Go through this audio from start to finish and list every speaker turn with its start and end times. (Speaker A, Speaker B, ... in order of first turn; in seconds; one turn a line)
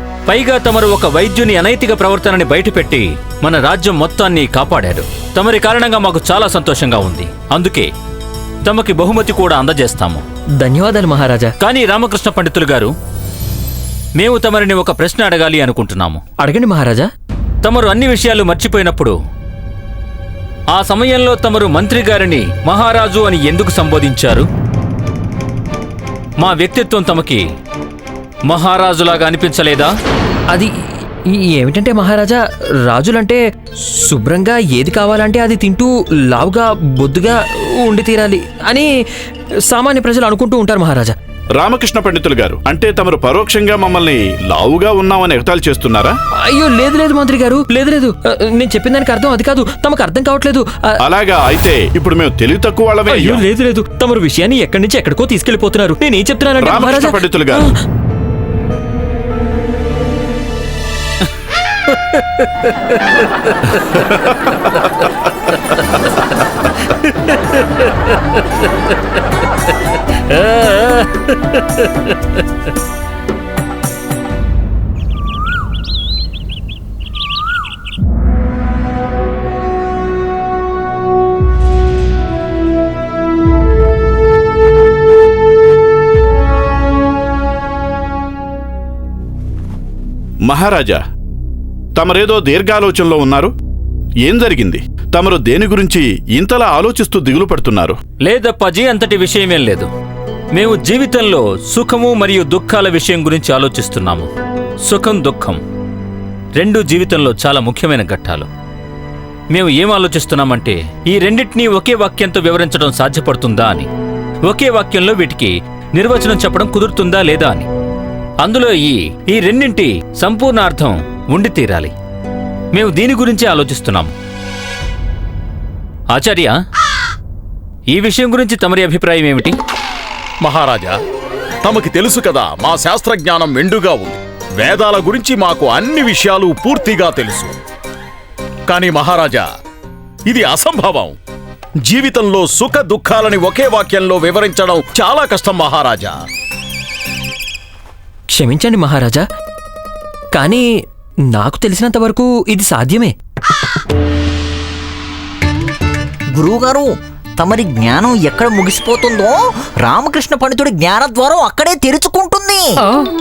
Speaker A: 0.3-7.9
Speaker A: 8.6-10.2
Speaker B: 10.6-11.5
Speaker A: 11.6-12.9
Speaker A: 14.2-16.2
Speaker B: 16.4-17.1
Speaker A: 17.6-19.1
Speaker A: 20.7-24.5
Speaker A: 26.4-27.4
Speaker A: 28.5-29.9
Speaker B: 31.4-33.4
Speaker B: 34.0-38.9
Speaker B: 39.7-41.1
Speaker C: 41.6-46.1
Speaker B: 46.4-51.0
Speaker C: 51.0-53.4
Speaker B: 53.1-57.7
Speaker C: 56.6-57.7
Speaker A: 62.1-64.1
Speaker A: 64.7-65.1
Speaker A: 67.0-68.4
Speaker A: 70.1-72.4
Speaker C: 90.5-91.0
Speaker C: 92.0-93.5
Speaker C: 94.2-98.0
Speaker A: 98.2-99.9
Speaker A: 100.5-104.3
Speaker A: 104.9-105.6
Speaker A: 106.6-108.5
Speaker A: 109.5-113.9
Speaker A: 114.5-117.7
Speaker A: 118.4-121.9
Speaker A: 122.7-124.1
Speaker A: 126.1-126.5
Speaker A: 127.9-129.6
Speaker D: 130.4-130.9
Speaker D: 131.6-137.6
Speaker D: 138.7-139.4
Speaker D: 140.3-141.2
Speaker D: 141.9-146.1
Speaker B: 148.3-149.2
Speaker B: 150.3-150.7
Speaker B: 151.3-153.1
Speaker E: 156.3-162.7